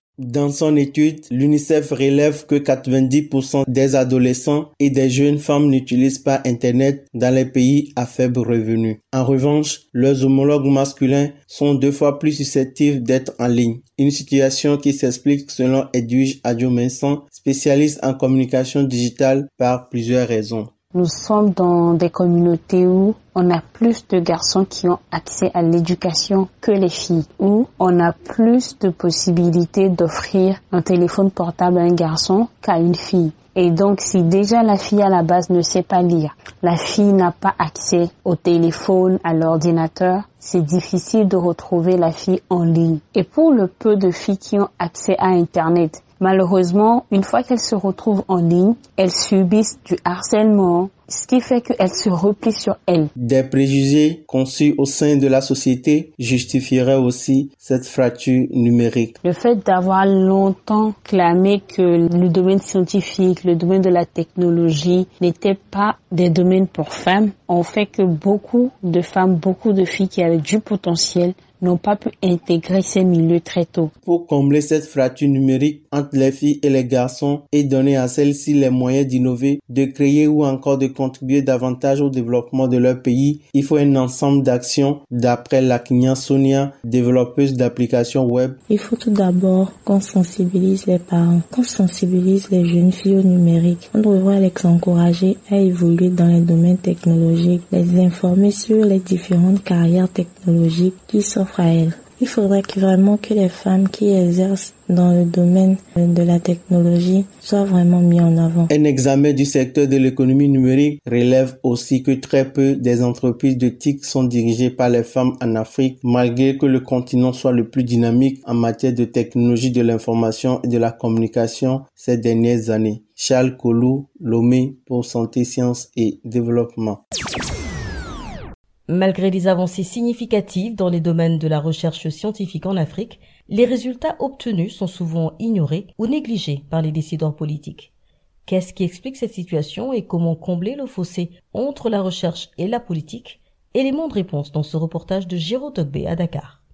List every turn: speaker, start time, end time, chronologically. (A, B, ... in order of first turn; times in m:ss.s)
0:00.2-0:20.7 A
0:20.9-0:53.1 B
0:53.2-0:59.1 A
0:59.2-1:13.9 B
1:14.0-1:28.6 A
1:28.7-1:48.7 C
1:48.7-2:07.0 A
2:08.9-2:17.9 D
2:18.4-2:26.6 D